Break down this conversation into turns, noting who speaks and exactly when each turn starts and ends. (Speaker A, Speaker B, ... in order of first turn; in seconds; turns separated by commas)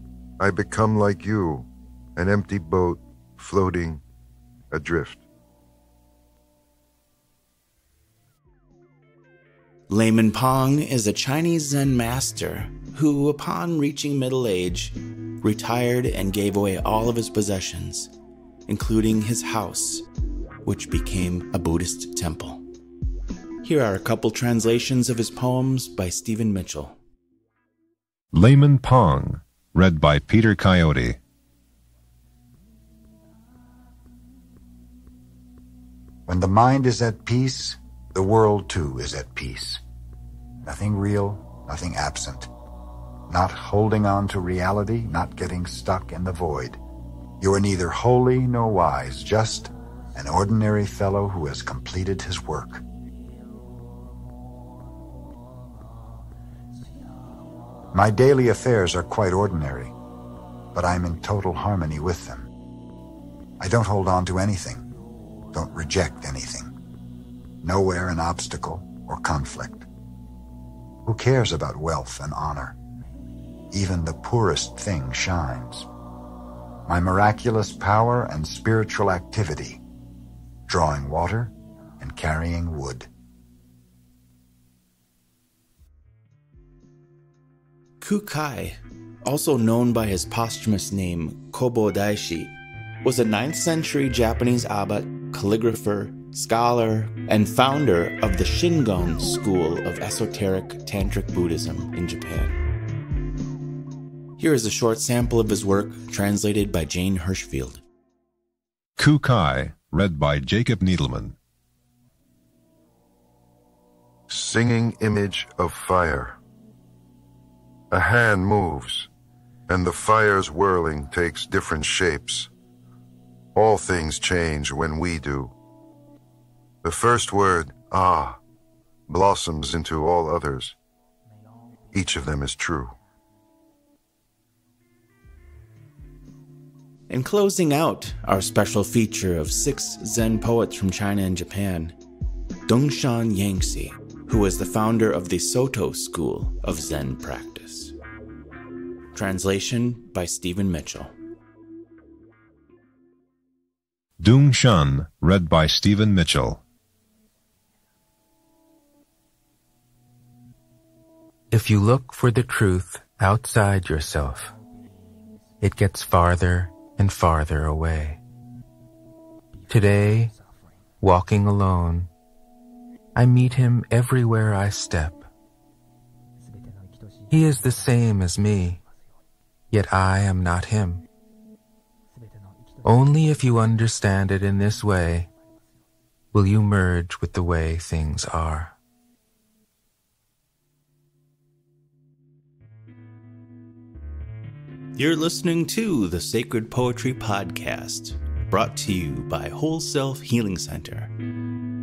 Speaker A: 0.4-4.0, Speaker A: 4.7-5.2, Speaker B: 9.9-18.1, Speaker B: 18.7-20.1, Speaker B: 20.6-22.6, Speaker B: 23.6-27.0, Speaker C: 28.3-31.2, Speaker D: 36.3-39.8, Speaker D: 40.6-42.5, Speaker D: 43.3-46.8, Speaker D: 47.4-52.8, Speaker D: 57.9-59.9, Speaker D: 60.7-62.5, Speaker D: 63.6-64.9, Speaker D: 65.5-66.7, Speaker D: 67.6-69.9, Speaker D: 71.1-72.8, Speaker D: 73.7-75.9, Speaker D: 76.9-79.8, Speaker D: 80.7-83.1, Speaker B: 88.0-102.6, Speaker B: 104.4-107.8, Speaker C: 109.0-111.4, Speaker A: 114.3-116.4, Speaker A: 117.9-119.1, Speaker A: 119.7-122.5, Speaker A: 123.5-125.5, Speaker A: 126.8-128.4, Speaker A: 129.1-130.8, Speaker A: 131.9-133.0, Speaker B: 137.1-142.0, Speaker B: 142.7-148.0, Speaker B: 149.1-151.1, Speaker C: 154.2-156.6, Speaker E: 161.5-164.5, Speaker E: 165.6-168.2, Speaker E: 169.7-170.3, Speaker E: 171.0-172.1, Speaker E: 173.2-175.3, Speaker E: 177.3-178.8, Speaker E: 179.7-181.0, Speaker E: 182.8-185.3, Speaker E: 186.3-188.8, Speaker B: 194.9-201.1